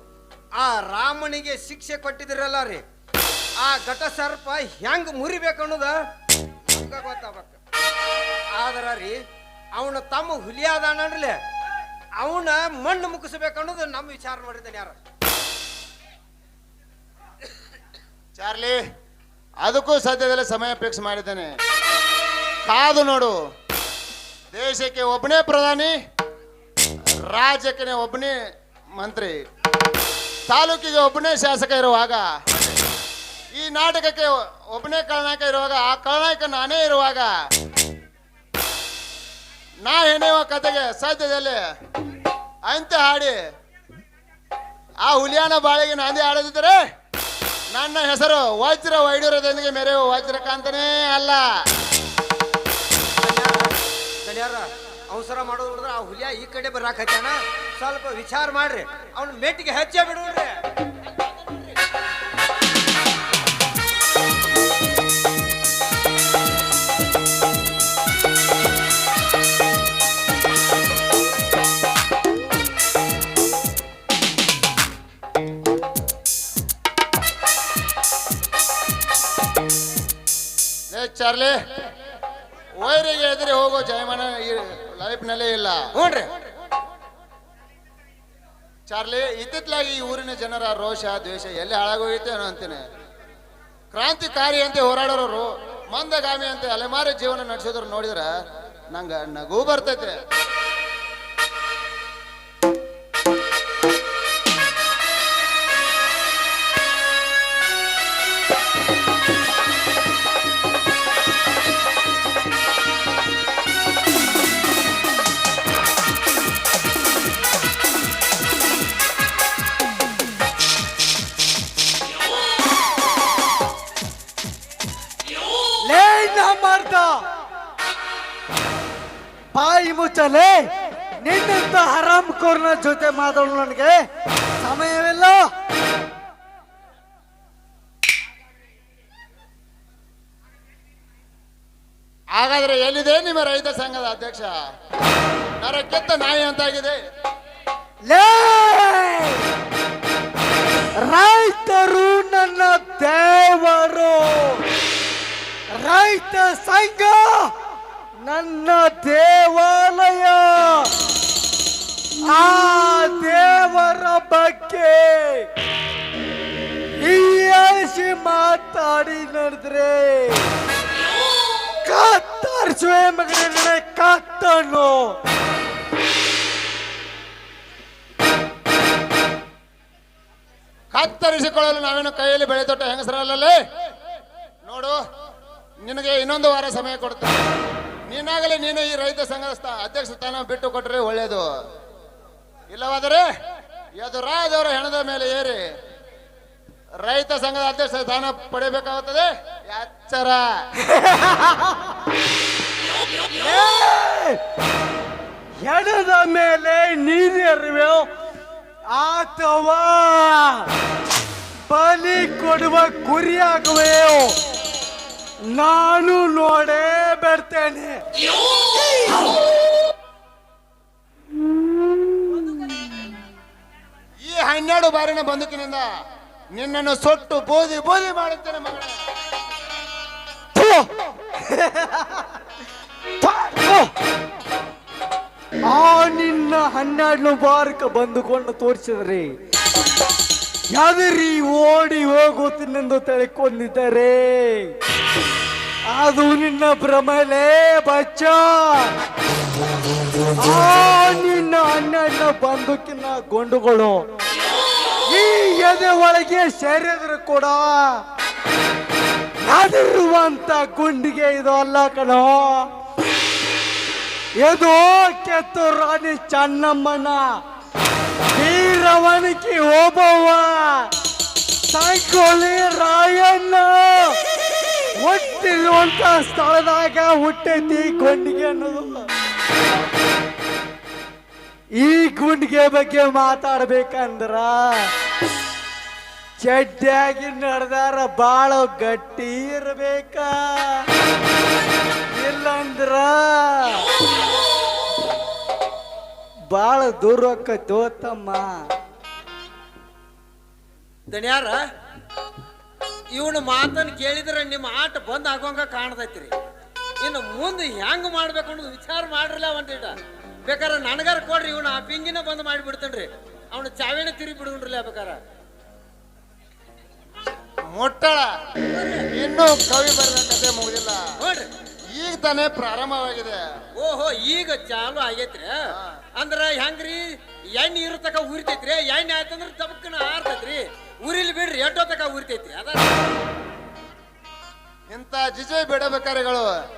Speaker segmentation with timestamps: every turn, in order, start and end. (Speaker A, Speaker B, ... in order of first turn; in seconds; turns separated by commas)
Speaker A: 0.6-2.8, Speaker A: 3.6-5.9, Speaker A: 6.7-7.6, Speaker A: 8.6-9.2, Speaker A: 9.7-11.3, Speaker A: 12.2-15.0, Speaker B: 18.4-18.8, Speaker B: 19.6-21.5, Speaker B: 22.6-23.3, Speaker B: 24.5-25.9, Speaker B: 27.2-28.3, Speaker B: 29.0-29.4, Speaker B: 30.5-32.3, Speaker B: 33.5-37.3, Speaker B: 39.8-41.6, Speaker B: 42.6-43.4, Speaker B: 45.0-46.8, Speaker B: 47.7-51.4, Speaker A: 53.2-60.6, Speaker B: 80.9-81.6, Speaker B: 82.8-85.8, Speaker A: 85.9-86.3, Speaker B: 88.9-92.8, Speaker B: 93.9-98.3, Speaker B: 98.9-100.2, Speaker C: 125.8-127.2, Speaker C: 129.5-130.6, Speaker C: 131.2-134.0, Speaker C: 134.6-135.4, Speaker B: 142.3-144.5, Speaker B: 145.6-147.0, Speaker C: 148.1-149.5, Speaker C: 150.9-154.6, Speaker C: 155.7-157.5, Speaker C: 158.2-160.9, Speaker C: 162.2-165.5, Speaker C: 167.0-170.5, Speaker C: 171.8-175.1, Speaker B: 180.9-183.6, Speaker B: 184.6-185.0, Speaker B: 185.8-187.4, Speaker B: 188.1-191.5, Speaker B: 192.7-193.3, Speaker B: 194.0-195.6, Speaker B: 197.0-200.5, Speaker C: 200.9-201.8, Speaker C: 203.3-204.4, Speaker C: 205.6-208.1, Speaker C: 208.9-210.7, Speaker C: 211.7-214.3, Speaker C: 215.5-218.0, Speaker B: 224.2-225.9, Speaker B: 226.5-228.9, Speaker C: 230.5-232.4, Speaker C: 233.2-233.9, Speaker C: 235.7-239.3, Speaker C: 240.7-244.7, Speaker C: 245.9-248.9, Speaker C: 250.4-254.0, Speaker C: 255.1-258.0, Speaker C: 259.4-262.7, Speaker C: 264.4-267.2, Speaker C: 268.3-270.9, Speaker C: 271.7-274.2, Speaker C: 275.0-279.1, Speaker C: 281.8-284.9, Speaker C: 286.4-290.9, Speaker C: 292.1-293.8, Speaker C: 296.5-298.5, Speaker A: 301.1-301.6, Speaker A: 303.1-306.3, Speaker A: 307.0-309.9, Speaker A: 310.4-315.2, Speaker B: 317.7-318.3, Speaker A: 318.7-319.0, Speaker B: 319.1-321.0, Speaker A: 321.2-321.5, Speaker B: 321.9-323.4, Speaker A: 323.8-325.6, Speaker A: 326.2-327.0, Speaker A: 327.6-332.9, Speaker B: 334.9-336.5